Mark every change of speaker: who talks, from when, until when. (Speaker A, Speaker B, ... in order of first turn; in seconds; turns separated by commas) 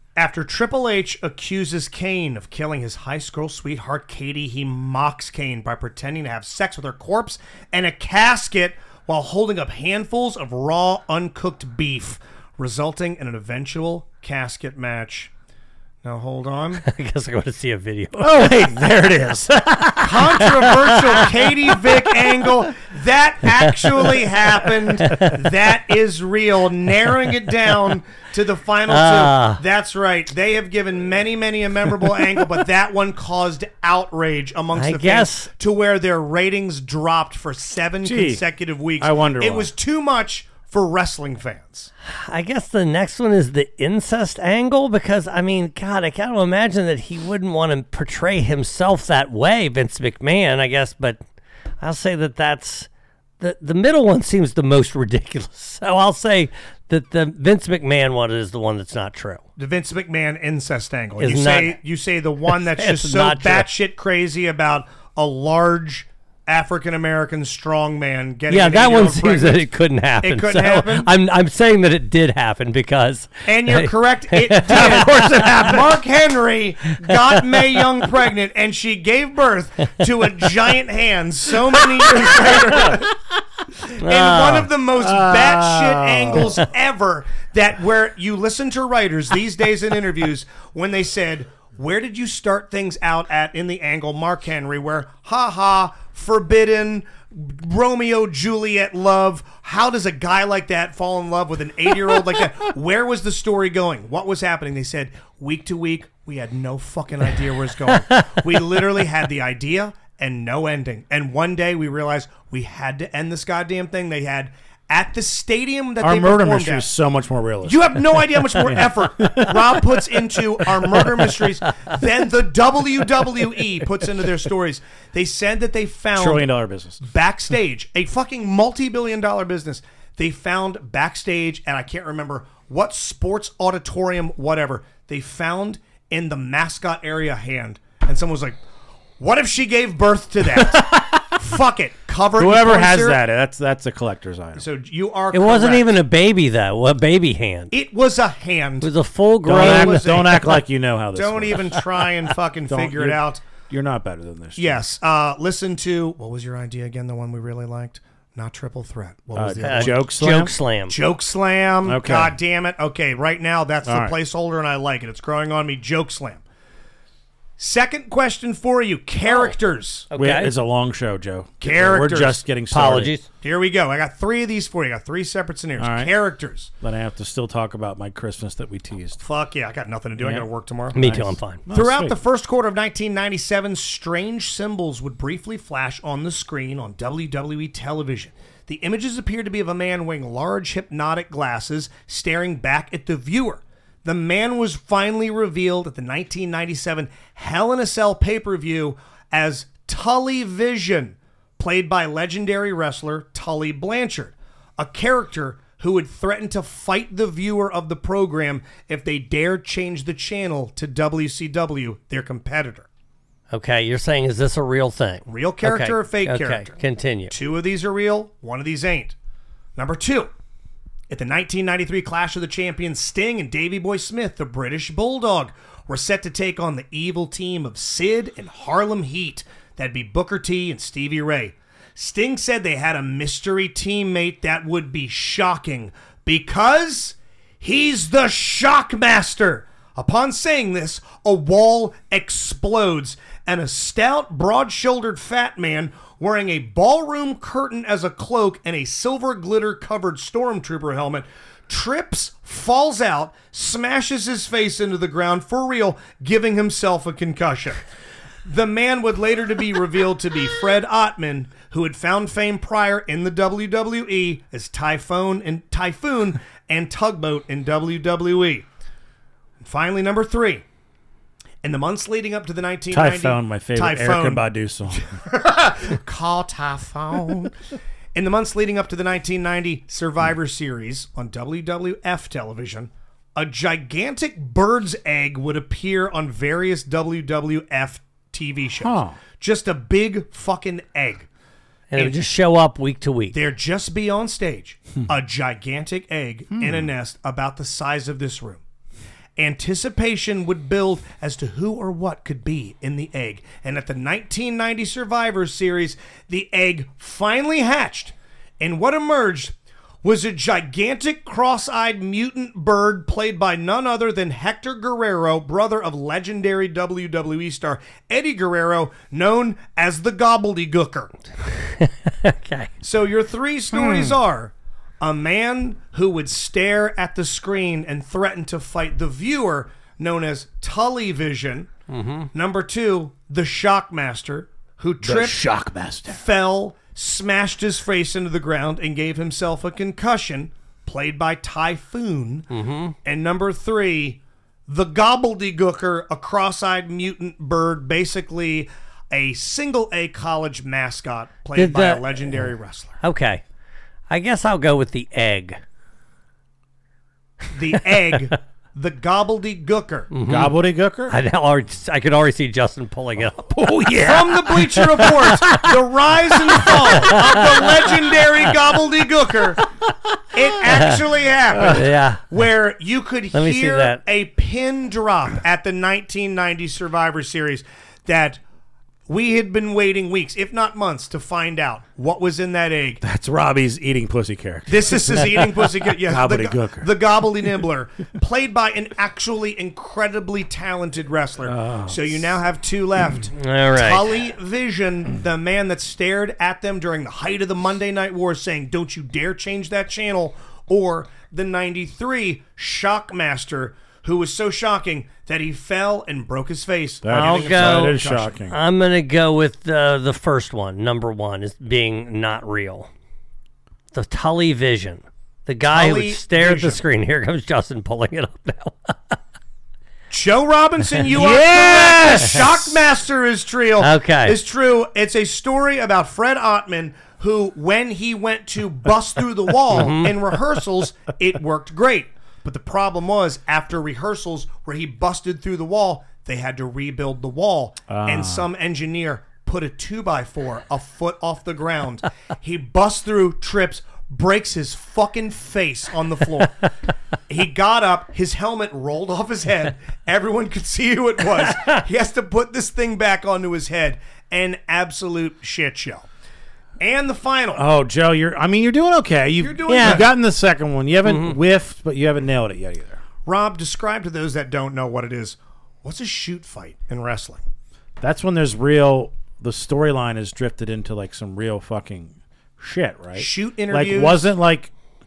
Speaker A: 0.2-15.3, Speaker A: 16.0-16.8, Speaker B: 16.8-18.5, Speaker C: 18.2-20.8, Speaker A: 20.0-41.9, Speaker B: 23.8-24.1, Speaker B: 25.0-25.4, Speaker B: 28.9-29.6, Speaker B: 34.8-35.5, Speaker C: 38.0-38.4, Speaker C: 39.0-39.7, Speaker B: 42.1-51.2, Speaker B: 51.8-52.9, Speaker B: 53.4-59.4, Speaker A: 59.6-69.7, Speaker B: 61.2-61.8, Speaker B: 62.5-63.7, Speaker B: 68.5-75.8, Speaker A: 70.2-71.1, Speaker A: 73.5-83.1, Speaker C: 74.9-75.8, Speaker B: 77.1-77.8, Speaker B: 84.0-84.7, Speaker A: 84.0-116.9, Speaker C: 85.0-86.6, Speaker C: 116.0-121.4, Speaker A: 117.6-126.5, Speaker C: 126.2-127.0, Speaker A: 127.0-138.6, Speaker A: 139.2-143.2, Speaker C: 140.6-141.3, Speaker C: 142.4-144.7, Speaker A: 144.6-146.0, Speaker B: 145.3-147.7, Speaker A: 147.7-148.9, Speaker B: 148.8-150.1, Speaker C: 149.4-151.9, Speaker A: 149.5-150.6, Speaker A: 151.1-153.4, Speaker C: 152.7-154.8, Speaker A: 154.6-160.1, Speaker C: 159.4-160.5, Speaker B: 159.6-160.9, Speaker A: 160.9-166.4, Speaker C: 161.8-162.4, Speaker C: 163.8-164.2, Speaker A: 167.6-170.1, Speaker B: 169.3-169.5, Speaker B: 170.1-170.5, Speaker C: 170.2-173.1, Speaker A: 171.6-172.4, Speaker B: 172.7-173.3, Speaker A: 173.4-176.7, Speaker C: 175.8-176.1, Speaker C: 176.8-179.2, Speaker A: 179.2-181.0, Speaker C: 180.2-182.2, Speaker B: 180.9-181.6, Speaker A: 181.7-212.9, Speaker B: 213.5-217.3, Speaker A: 215.3-216.8, Speaker A: 217.3-219.2, Speaker A: 219.8-220.3, Speaker A: 221.1-257.8, Speaker A: 258.4-268.7, Speaker A: 269.6-270.6, Speaker A: 271.6-277.5, Speaker C: 272.9-275.1, Speaker A: 278.1-291.3, Speaker C: 288.8-289.2, Speaker B: 291.9-293.4, Speaker A: 293.3-298.6, Speaker C: 296.5-296.9, Speaker A: 299.4-321.1, Speaker B: 321.6-322.7, Speaker A: 322.8-331.7, Speaker C: 323.7-324.2, Speaker B: 331.9-332.3, Speaker A: 332.3-335.4, Speaker C: 335.0-336.2, Speaker A: 336.1-342.5, Speaker B: 342.5-342.9, Speaker A: 343.1-353.0, Speaker B: 351.6-352.2, Speaker B: 353.0-353.4, Speaker B: 354.1-355.6, Speaker A: 357.5-360.1, Speaker B: 360.1-360.5, Speaker C: 360.3-361.1, Speaker B: 361.1-363.7, Speaker C: 363.5-365.6, Speaker A: 364.0-369.7, Speaker B: 365.0-365.6, Speaker B: 366.7-367.2, Speaker A: 370.3-378.4, Speaker C: 371.5-371.9, Speaker B: 371.6-372.2, Speaker B: 373.3-374.0, Speaker A: 379.1-383.0, Speaker C: 383.0-386.9, Speaker A: 384.7-408.3, Speaker C: 391.4-392.1, Speaker B: 393.4-394.1, Speaker C: 407.0-408.6, Speaker B: 407.1-412.9, Speaker B: 413.9-419.2, Speaker A: 415.7-416.8, Speaker A: 420.1-446.7, Speaker C: 421.1-422.7, Speaker B: 423.8-424.4, Speaker B: 429.7-430.1, Speaker C: 437.9-438.5, Speaker A: 447.3-456.1, Speaker A: 456.8-457.6, Speaker C: 457.6-463.0, Speaker A: 459.4-460.1, Speaker B: 459.7-460.0, Speaker B: 461.1-461.4, Speaker A: 463.3-467.4, Speaker C: 468.0-474.7, Speaker A: 473.1-474.2